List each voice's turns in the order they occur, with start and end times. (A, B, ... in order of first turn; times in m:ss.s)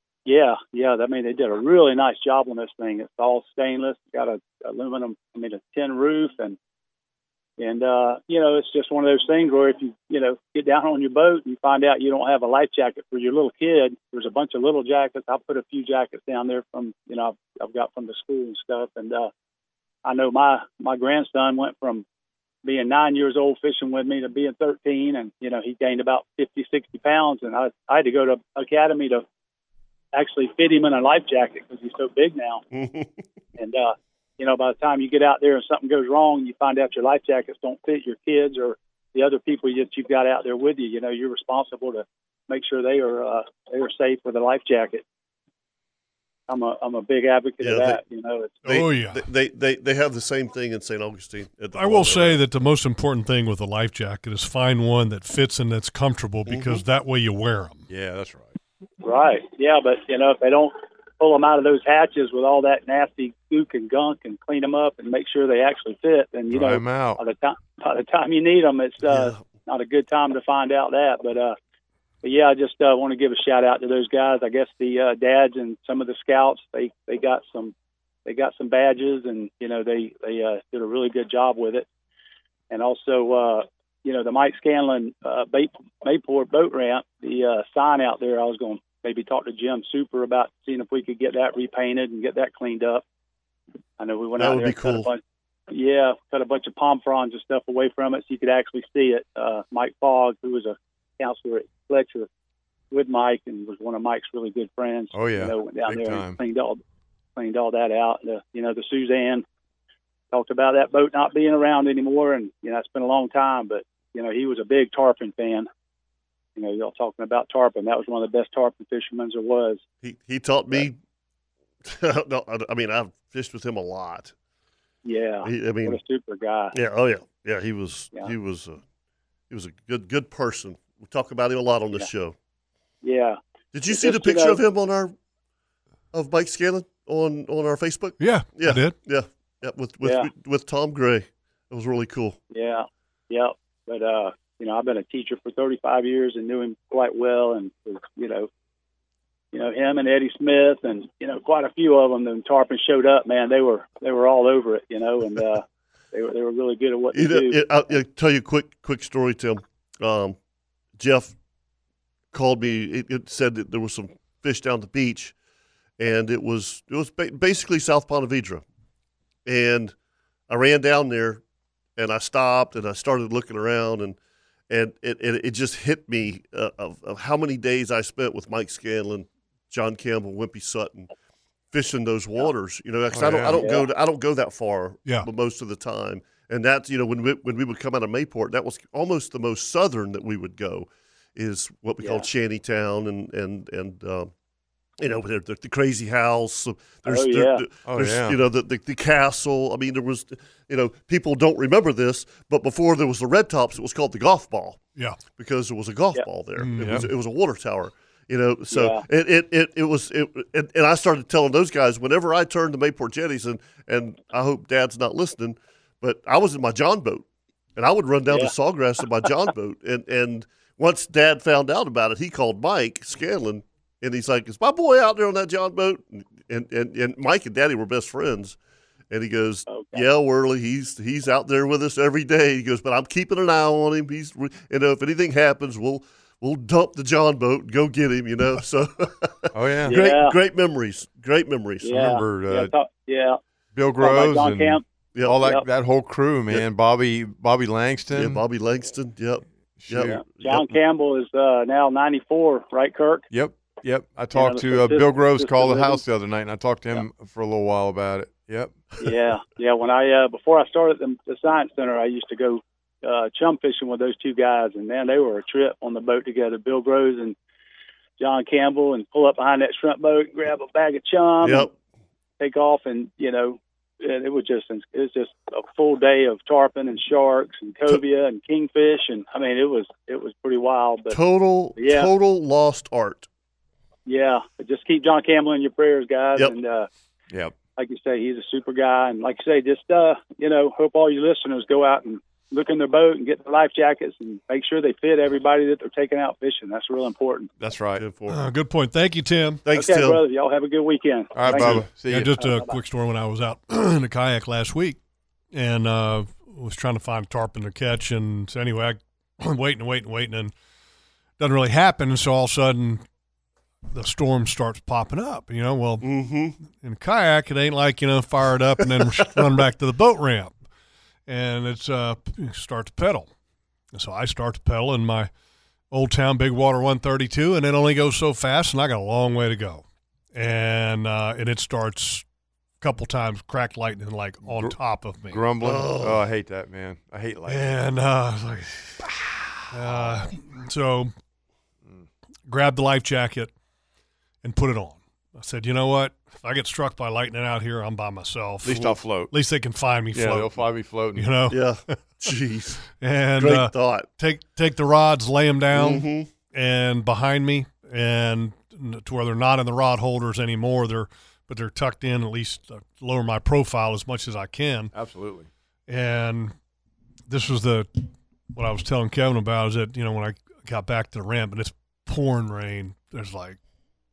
0:00.3-0:06.6 A
0:07.6-0:19.3 A
0:20.0-0:22.0 A
0:22.6-0:29.2 A
0:30.1-0:32.6 A
0:32.7-0:33.2 B
0:33.6-0:45.0 A
0:46.5-0:48.6 A
0:47.6-0:48.0 B
0:48.6-0:52.4 B
0:48.7-0:49.2 C
0:51.7-0:57.9 C
0:56.5-0:56.8 B
0:57.9-0:58.6 D
0:59.0-1:11.6 A
1:06.5-1:07.2 D
1:09.1-1:09.4 B
1:12.2-1:17.7 A
1:18.3-1:21.9 A
1:22.7-1:33.0 A
1:34.0-1:42.3 A
1:34.4-1:35.1 B
1:42.9-1:46.8 A
1:45.1-1:46.4 D
1:47.4-1:49.4 A
1:50.3-1:55.7 A
1:56.6-1:59.8 A
2:00.0-2:01.0 B
2:01.8-2:04.3 B
2:05.0-2:06.8 A
2:05.4-2:06.0 B
2:06.7-2:08.8 B
2:09.5-2:12.4 B
2:13.0-2:14.6 A
2:13.7-2:15.2 B
2:16.1-2:22.4 B
2:18.2-2:19.0 C
2:20.0-2:20.3 A
2:22.5-2:28.5 A
2:29.5-2:38.0 A
2:37.1-2:40.4 B
2:41.0-2:41.3 B
2:42.3-2:45.3 B
2:46.0-2:48.6 B
2:49.5-2:49.9 B
2:50.5-2:51.4 B
2:52.0-2:54.2 B
2:54.7-3:01.1 B
3:01.7-3:14.3 B
3:03.1-3:03.6 D
3:03.5-3:03.9 A
3:12.0-3:12.3 A
3:15.0-3:24.8 B
3:17.0-3:17.6 A
3:17.9-3:18.4 D
3:25.4-3:37.2 B
3:26.6-3:27.1 C
3:26.8-3:27.1 D
3:28.7-3:29.1 A
3:37.8-3:48.6 B
3:38.3-3:38.5 A
3:49.1-4:02.0 B
3:49.7-3:50.0 A
3:59.5-4:00.0 D
3:59.9-4:00.4 A
4:01.8-4:03.4 A
4:01.9-4:02.7 D
4:03.7-4:08.4 D
4:04.0-4:04.8 A
4:05.2-4:05.5 B
4:08.1-4:10.7 B
4:09.8-4:10.2 D
4:10.0-4:13.3 A
4:13.3-4:18.8 D
4:14.3-4:16.0 A
4:19.0-4:27.4 A
4:28.2-4:31.7 A
4:31.4-4:31.7 B
4:32.4-4:41.2 A
4:41.1-4:43.3 B
4:41.8-4:42.1 A
4:44.1-4:46.9 A
4:47.3-4:47.6 D
4:47.8-4:57.5 A
4:57.6-4:58.0 D
4:58.0-4:58.4 B
4:58.3-4:59.6 C
4:59.7-5:00.2 B
4:59.7-5:02.8 A
5:01.4-5:02.3 D
5:01.9-5:05.0 C
5:05.5-5:10.5 C
5:11.4-5:13.0 C
5:13.9-5:16.1 C
5:16.0-5:16.6 B
5:16.6-5:20.5 C
5:21.3-5:23.3 C
5:23.9-5:25.3 C
5:25.9-5:32.2 C
5:32.8-5:35.4 C
5:34.4-5:37.8 D
5:35.6-5:36.2 B
5:37.5-5:39.0 C
5:39.1-5:40.1 D
5:39.7-5:41.1 C
5:42.5-5:43.5 C
5:44.4-5:50.6 C
5:48.6-5:49.3 D
5:50.1-5:51.3 D
5:51.2-5:51.6 C
5:51.5-5:52.8 B
5:53.0-6:04.9 C
5:53.4-5:54.1 B
5:55.7-5:56.3 B
6:04.9-6:05.5 D
6:05.9-6:06.5 C
6:07.3-6:13.6 C